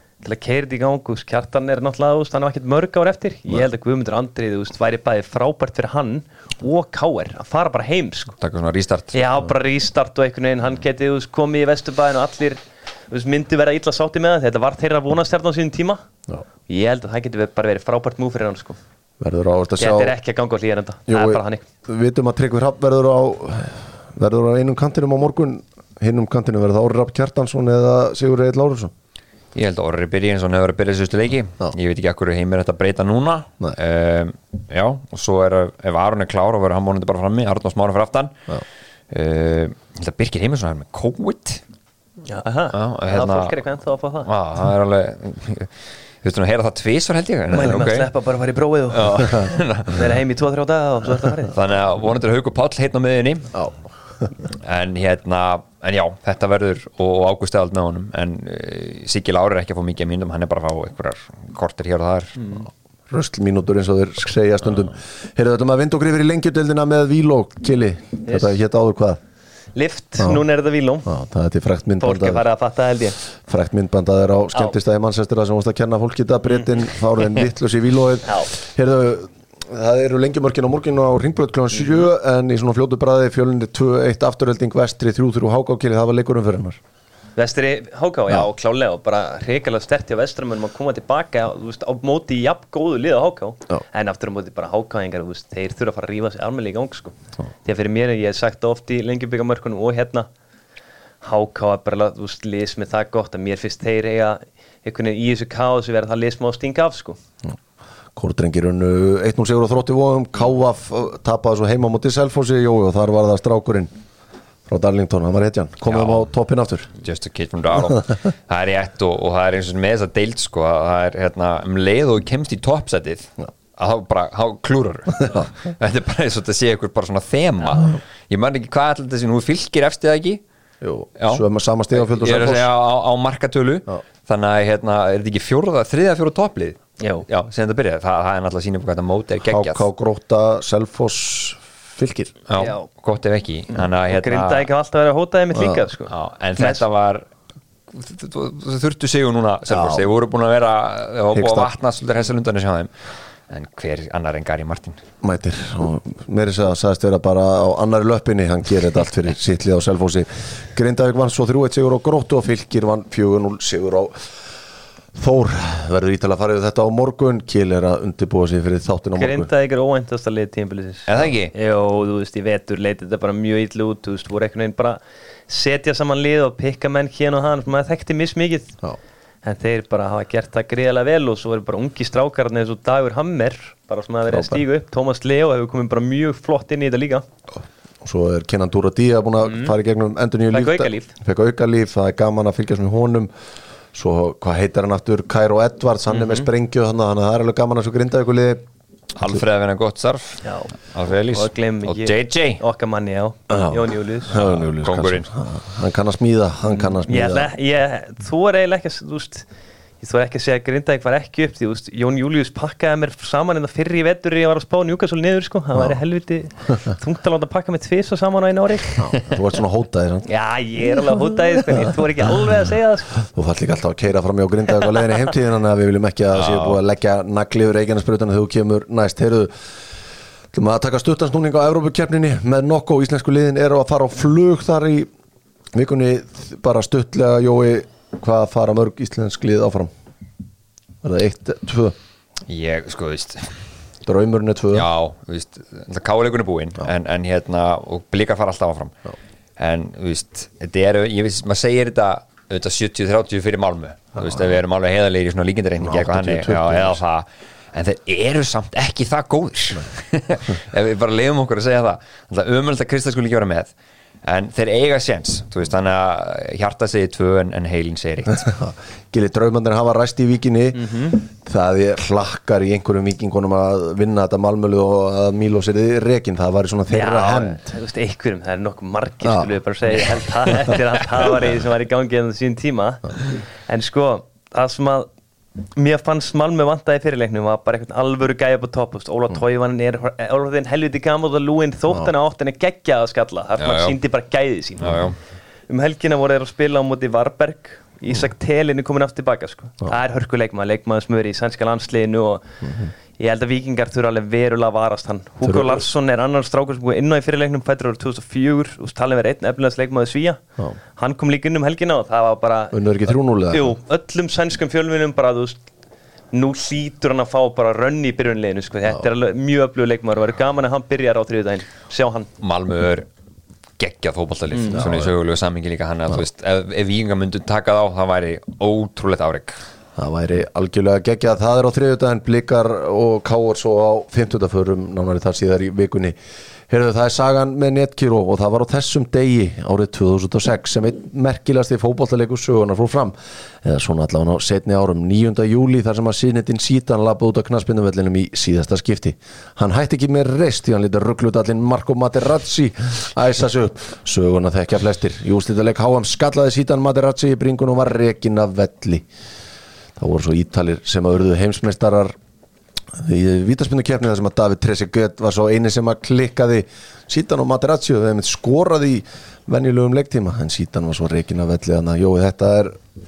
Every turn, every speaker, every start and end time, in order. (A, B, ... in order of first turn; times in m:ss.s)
0:00.2-0:08.4 A
0:08.4-0:09.2 B
0:09.1-0:16.0 A
0:16.7-0:18.8 A
0:19.2-0:20.2 C
0:19.8-0:21.7 A
0:21.1-0:28.9 C
0:29.6-0:38.4 B
0:39.1-0:41.6 B
0:42.3-0:44.3 A
0:42.7-0:43.6 B
0:44.2-0:48.1 B
0:47.5-0:51.5 A
0:48.9-0:50.1 B
0:51.5-0:53.5 B
0:53.5-0:54.3 C
0:54.6-1:02.4 B
1:02.4-1:02.7 A
1:03.1-1:09.2 C
1:08.3-1:08.5 A
1:09.8-1:11.1 A
1:11.1-1:12.4 C
1:12.0-1:13.2 A
1:13.5-1:26.8 C
1:18.2-1:18.5 A
1:21.7-1:22.0 A
1:27.4-1:37.1 A
1:37.6-1:40.3 A
1:41.2-1:47.2 A
1:48.2-1:53.9 C
1:54.7-1:56.9 C
1:55.8-1:56.3 B
1:57.0-2:10.4 B
2:10.8-2:12.7 C
2:11.2-2:11.4 B
2:11.9-2:19.8 B
2:17.0-2:17.2 A
2:19.5-2:22.4 C
2:22.5-2:24.7 B
2:22.6-2:22.9 A
2:24.1-2:26.8 A
2:25.6-2:25.8 C
2:26.1-2:27.3 B
2:27.9-2:32.9 B
2:29.7-2:30.1 C
2:31.3-2:31.7 C
2:33.5-2:35.0 B
2:35.2-2:44.2 C
2:45.2-2:49.5 C
2:49.2-2:58.8 A
2:51.1-2:51.5 B
2:59.4-3:07.2 A
3:04.3-3:04.6 C
3:08.0-3:13.3 C
3:10.5-3:11.1 A
3:13.9-3:18.6 C
3:16.1-3:16.5 A
3:19.2-3:22.6 B
3:20.4-3:20.7 A
3:21.3-3:24.3 A
3:23.5-3:27.5 C
3:24.3-3:25.3 B
3:26.7-3:29.5 A
3:30.0-3:39.0 A
3:39.0-3:40.3 C
3:40.2-3:43.2 A
3:43.3-3:49.5 C
3:46.3-3:46.8 B
3:50.5-3:55.1 C
3:55.7-3:59.9 C
4:01.0-4:02.0 C
4:02.5-4:03.6 B
4:04.1-4:04.9 C
4:04.7-4:08.9 B
4:09.6-4:23.7 B
4:15.8-4:17.0 C
4:24.2-4:28.5 B
4:28.4-4:37.7 C
4:30.7-4:31.2 A
4:36.9-4:45.1 A
4:39.2-4:39.5 C
4:45.8-4:55.1 A
4:53.6-4:54.0 B
4:54.8-4:55.2 B
4:55.7-5:10.4 A
5:05.4-5:05.8 C
5:11.0-5:12.8 A
5:12.7-5:13.7 C
5:13.5-5:15.6 A
5:16.3-5:22.3 A
5:22.4-5:23.1 B
5:23.8-5:29.6 B
5:24.5-5:24.8 A
5:24.7-5:25.1 C
5:30.0-5:36.2 C
5:36.7-5:59.1 C
6:00.0-6:02.2 C
6:02.9-6:12.8 C